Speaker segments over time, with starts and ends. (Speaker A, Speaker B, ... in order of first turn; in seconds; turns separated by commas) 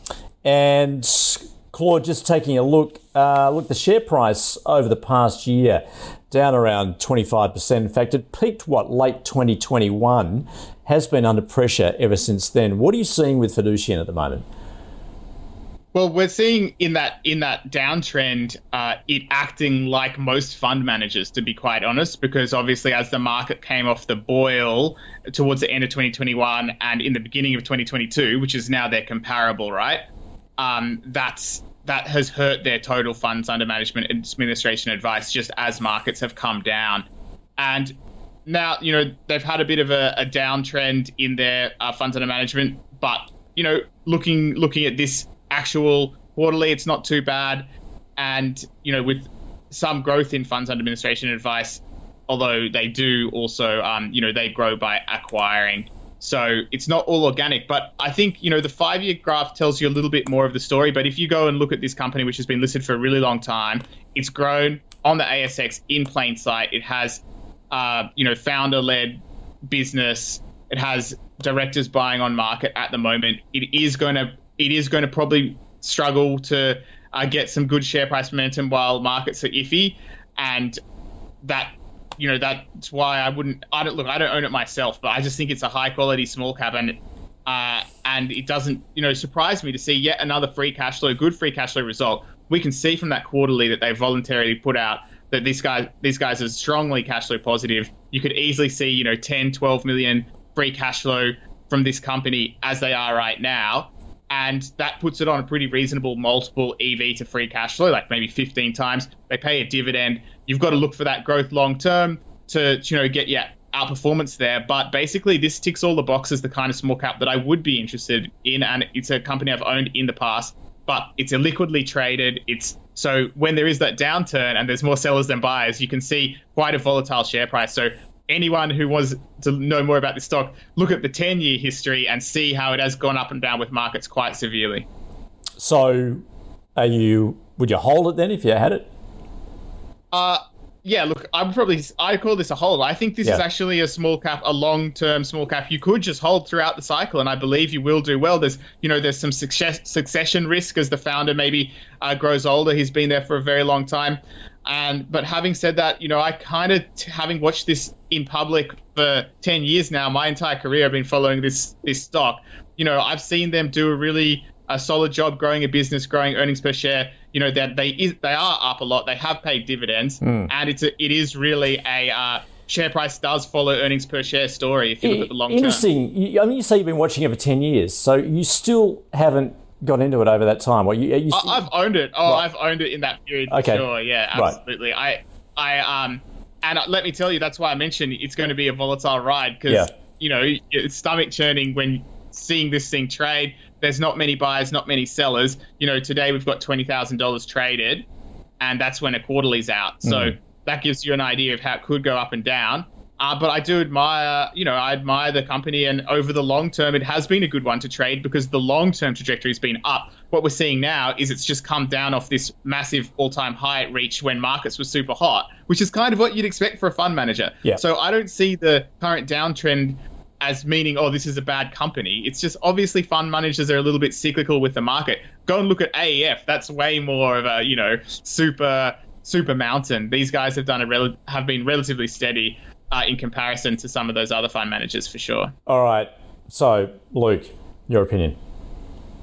Speaker A: 0.4-14.4, Speaker B: 15.9-30.0, Speaker B: 30.6-37.0, Speaker B: 37.6-37.9, Speaker B: 38.5-80.8, Speaker B: 81.4-134.8, Speaker A: 135.6-136.2, Speaker A: 136.8-138.9, Speaker B: 140.1-175.8, Speaker A: 170.2-170.5, Speaker A: 175.0-181.7, Speaker B: 181.3-198.0, Speaker A: 183.5-184.6, Speaker B: 198.6-235.5, Speaker A: 200.0-200.3, Speaker A: 235.7-238.4